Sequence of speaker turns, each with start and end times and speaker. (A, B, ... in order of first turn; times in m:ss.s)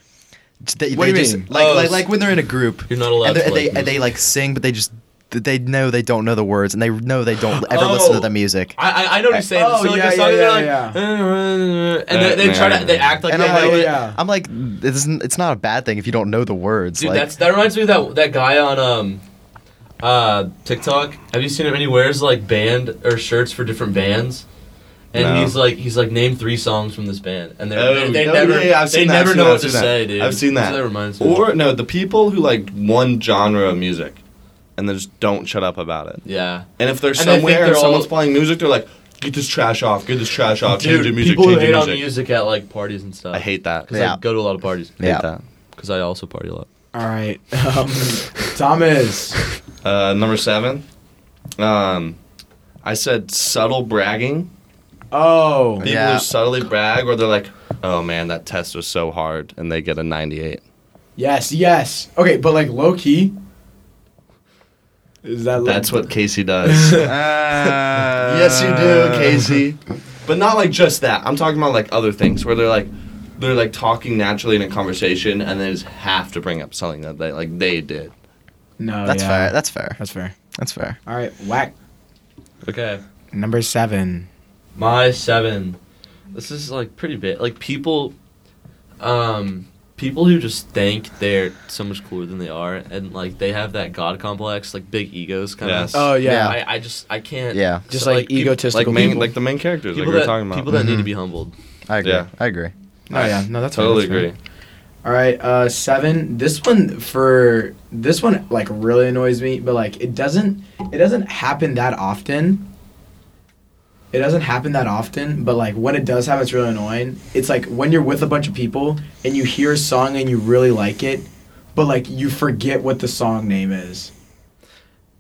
0:00.6-0:08.8 A
0:00.9-0:01.5 B
0:01.5-0:02.2 C
0:02.9-0:04.0 C
0:07.5-0:14.0 C
0:09.3-0:11.0 B
0:12.1-0:13.2 D
0:13.3-0:17.3 A
0:13.3-0:14.2 B
0:17.0-0:19.2 C
0:20.0-0:24.4 C
0:25.1-0:31.4 C
0:25.1-0:25.6 D
0:27.8-0:34.2 D
0:34.8-0:36.2 D
0:36.2-0:38.1 C
0:36.8-0:42.1 D
0:40.7-0:45.2 C
0:43.3-0:43.9 D
0:43.9-0:44.2 A
0:45.0-0:45.3 A
0:45.0-0:45.4 D
0:45.8-0:46.7 C
0:46.9-0:49.4 B
0:49.8-0:50.8 D
0:51.6-0:52.2 D
0:52.8-0:54.5 D
0:55.1-0:55.8 B
0:55.8-0:56.3 A
0:55.8-1:00.6 D
1:01.2-1:03.4 B
1:05.2-1:06.1 B
1:05.6-1:18.1 D
1:06.6-1:07.1 B
1:07.0-1:09.5 A
1:18.8-1:20.4 B
1:19.0-1:20.0 A
1:20.6-1:21.0 A
1:21.1-1:21.7 B
1:22.6-1:23.0 C
1:23.3-1:24.3 B
1:24.8-1:25.8 C
1:26.3-1:28.1 C
1:29.0-1:39.1 C
1:35.6-1:36.0 D
1:35.9-1:36.6 B
1:36.2-1:36.6 A
1:37.5-1:37.8 A
1:37.9-1:39.3 B
1:38.7-1:40.7 D
1:39.9-1:41.5 C
1:40.7-1:41.1 A
1:41.9-1:42.7 A
1:42.0-1:42.3 D
1:43.1-1:44.3 B
1:43.1-1:44.4 D
1:45.0-1:52.7 B
1:54.1-2:04.1 B